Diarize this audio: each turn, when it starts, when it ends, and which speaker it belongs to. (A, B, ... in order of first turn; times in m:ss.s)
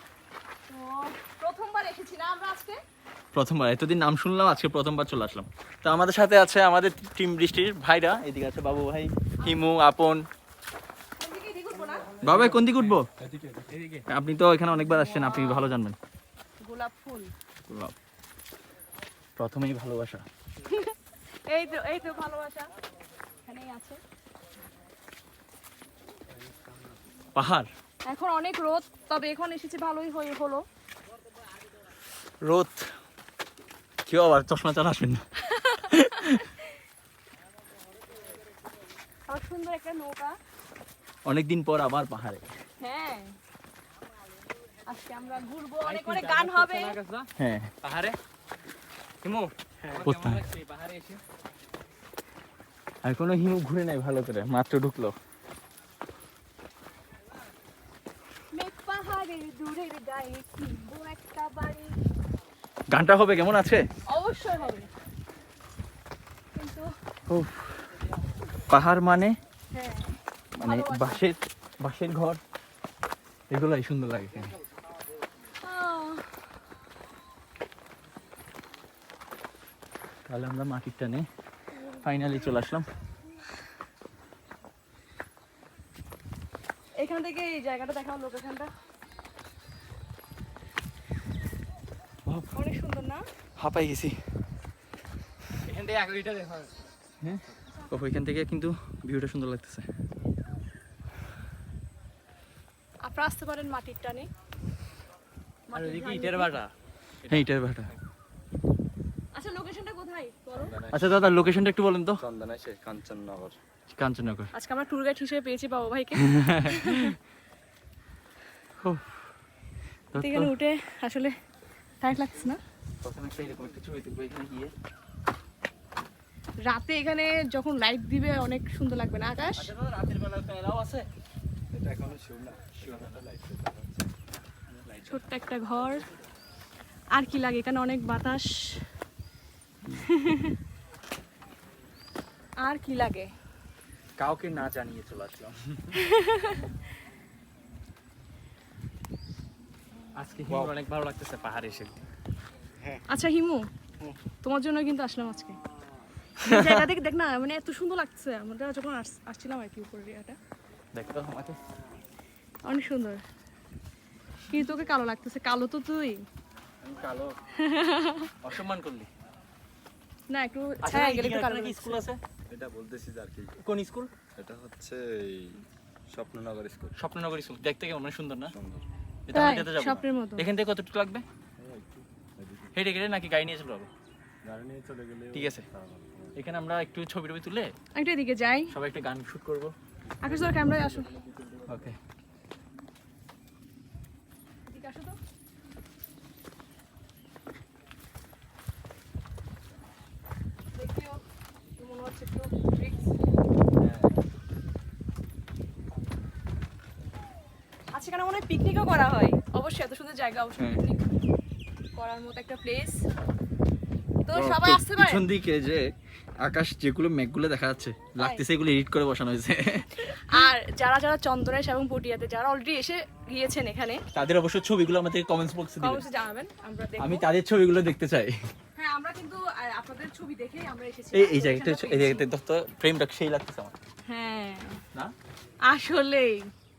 0:00.7-0:02.8 A
0:03.3-0:10.2 B
0:11.2-0:12.1 A
0:12.2-0:13.1 B
0:13.2-0:13.6 C
0:13.7-0:14.0 D
0:14.1-0:16.0 B
0:14.8-0:15.8 A
0:16.6-0:17.3 A
0:17.7-0:18.0 B
0:19.4-0:20.2 B
0:21.5-0:22.7 A
0:23.4-0:24.0 A
0:27.4-0:27.7 B
0:28.0-0:30.6 A
0:32.4-0:32.9 B
0:34.0-0:35.2 B
0:35.5-0:35.9 A
0:35.8-0:36.4 B
0:39.3-0:40.4 A
0:41.3-0:42.5 B
0:42.8-0:43.4 A
0:44.9-0:47.0 A
0:45.8-0:47.3 D
0:47.4-0:47.7 B
0:47.8-0:48.2 D
0:49.2-0:51.2 D
0:49.9-0:50.4 B
0:53.0-0:55.2 B
0:58.5-1:02.0 A
1:02.9-1:03.8 B
1:04.1-1:04.9 A
1:06.5-1:06.9 A
1:07.3-1:07.9 B
1:08.7-1:09.4 B
1:09.7-1:11.2 A
1:10.6-1:12.4 B
1:13.5-1:14.6 B
1:15.6-1:16.3 A
1:20.3-1:21.3 B
1:22.0-1:22.9 B
1:27.0-1:28.7 A
1:32.5-1:33.2 A
1:33.6-1:34.2 B
1:35.6-1:36.7 D
1:37.2-1:39.9 B
1:43.0-1:44.3 A
1:45.7-1:46.5 A
1:45.7-1:46.7 D
1:47.2-1:48.0 D
1:47.3-1:47.9 B
1:49.3-1:50.8 A
1:50.6-1:51.1 C
1:50.9-1:52.2 B
1:52.2-1:53.6 C
1:53.9-1:54.5 B
1:54.5-1:57.1 A
1:56.2-1:57.1 B
1:58.8-1:59.2 B
2:00.1-2:00.5 B
2:00.2-2:01.3 A
2:02.0-2:02.6 A
2:03.0-2:04.7 B
2:06.7-2:09.7 A
2:09.6-2:11.1 B
2:11.7-2:14.0 C
2:12.8-2:13.2 B
2:14.9-2:15.2 B
2:15.1-2:16.1 A
2:17.1-2:18.8 A
2:20.0-2:20.5 A
2:22.6-2:23.3 A
2:24.2-2:25.5 B
2:25.9-2:26.7 A
2:30.2-2:32.0 D
2:33.1-2:33.7 A
2:34.4-2:35.6 A
2:36.4-2:40.4 A
2:40.9-2:41.6 B
2:42.7-2:43.2 A
2:44.5-2:46.2 A
2:46.8-2:47.3 B
2:47.6-2:48.3 A
2:48.4-2:49.1 B
2:50.3-2:52.0 A
2:50.8-2:52.2 B
2:52.5-2:53.6 C
2:53.6-2:54.1 B
2:54.4-2:56.9 C
2:57.0-2:58.5 B
2:58.5-2:58.8 C
2:59.3-3:01.2 B
2:59.3-3:00.5 A
3:01.6-3:02.7 C
3:02.8-3:03.9 B
3:04.4-3:06.3 C
3:05.3-3:05.7 B
3:06.4-3:07.7 B
3:08.0-3:08.7 A
3:08.7-3:09.7 B
3:10.2-3:11.1 A
3:10.2-3:11.8 C
3:11.7-3:12.0 B
3:14.7-3:15.2 A
3:20.8-3:21.2 A
3:21.8-3:23.1 A
3:23.8-3:24.1 B
3:27.9-3:31.1 A
3:32.0-3:33.0 A
3:34.3-3:35.2 A
3:34.3-3:35.9 B
3:36.4-3:40.5 B
3:40.3-3:44.0 A
3:44.1-3:46.0 B
3:45.8-3:47.3 A
3:47.0-3:48.4 B
3:48.8-3:52.3 A
3:51.1-3:53.8 B
3:54.1-3:54.8 A
3:55.7-3:56.5 A